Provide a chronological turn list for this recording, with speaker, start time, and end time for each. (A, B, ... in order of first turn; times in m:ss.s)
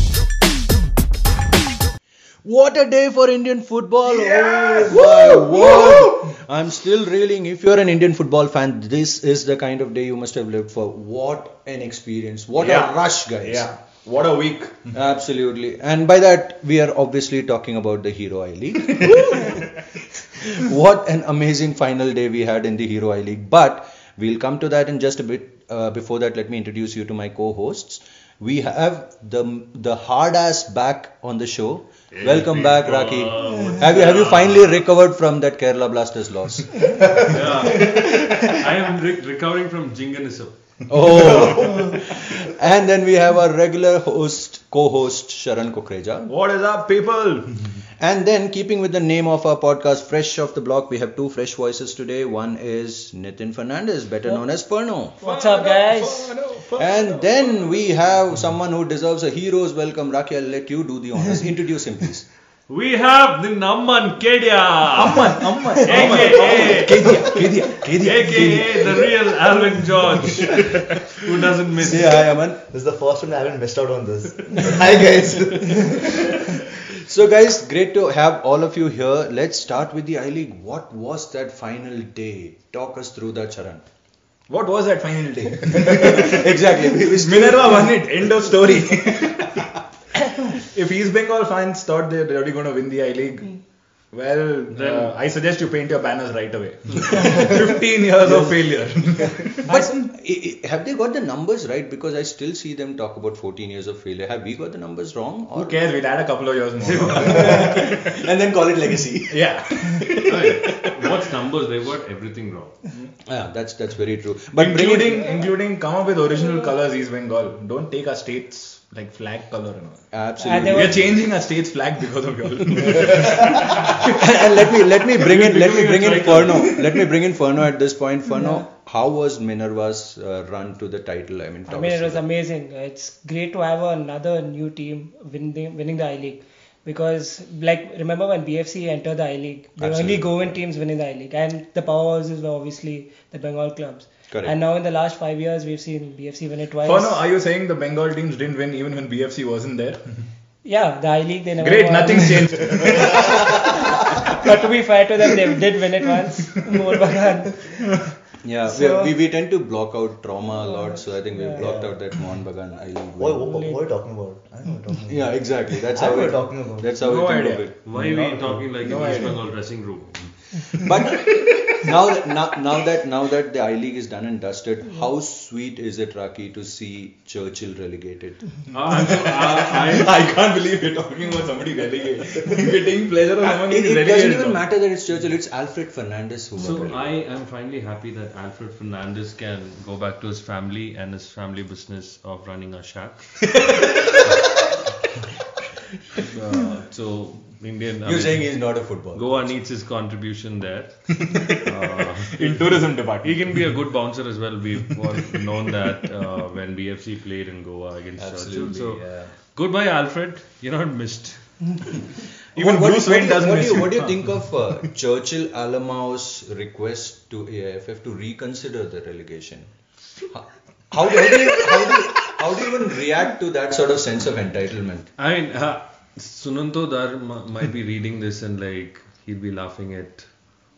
0:02.4-0:13.7 A
0:04.0-0:06.3 B
0:12.6-0:14.9 B
0:14.9-0:19.7 A
0:20.3-0:37.2 A
0:32.1-0:34.8 C
0:37.2-0:40.6 C
0:40.9-0:46.3 A
0:41.2-0:42.0 B
0:41.3-0:41.9 C
0:46.3-0:47.7 B
0:48.0-0:55.2 A
0:55.2-0:56.4 D
0:55.2-0:57.9 B
0:56.8-1:02.3 A
1:02.7-1:07.4 C
1:04.9-1:08.8 B
1:05.9-1:09.4 A
1:08.0-1:12.3 C
1:11.8-1:12.6 A
1:12.7-1:16.5 E
1:16.9-1:23.8 A
1:24.5-1:33.6 B
1:25.7-1:28.0 A
1:34.1-1:40.1 B
1:34.7-1:35.2 C
1:36.9-1:37.6 C
1:38.2-1:38.6 A
1:39.7-1:45.8 A
1:45.6-1:48.1 B
1:46.8-1:47.8 C
1:47.1-1:50.8 A
1:49.3-1:51.2 B
1:50.3-1:52.8 C
1:53.3-1:55.5 A
1:54.6-2:04.0 B
2:00.1-2:01.1 A
2:00.4-2:01.0 D
2:02.9-2:12.2 A
2:05.1-2:06.9 C
2:08.3-2:08.7 D
2:11.7-2:27.2 D
2:19.8-2:20.6 A
2:24.3-2:24.6 A
2:26.8-2:30.2 B
2:30.6-2:37.8 D
2:31.6-2:34.4 B
2:38.4-2:43.5 A
2:38.7-2:39.1 D
2:40.5-2:41.7 D
2:41.6-2:42.0 E
2:43.2-2:47.0 E
2:43.4-2:43.8 D
2:45.1-2:47.8 A
2:47.0-2:47.7 B
2:47.8-2:50.7 C
2:47.9-2:49.2 E
2:48.7-2:49.5 B
2:50.8-2:58.7 A
2:58.7-3:00.3 C
2:58.7-3:04.6 B
3:03.4-3:07.1 A
3:06.6-3:13.6 C
3:16.2-3:31.9 C
3:18.0-3:19.4 A
3:21.3-3:23.6 B
3:28.2-3:29.4 A
3:32.5-3:39.7 A
3:32.6-3:34.4 B
3:40.3-3:45.1 A
3:45.2-3:50.3 C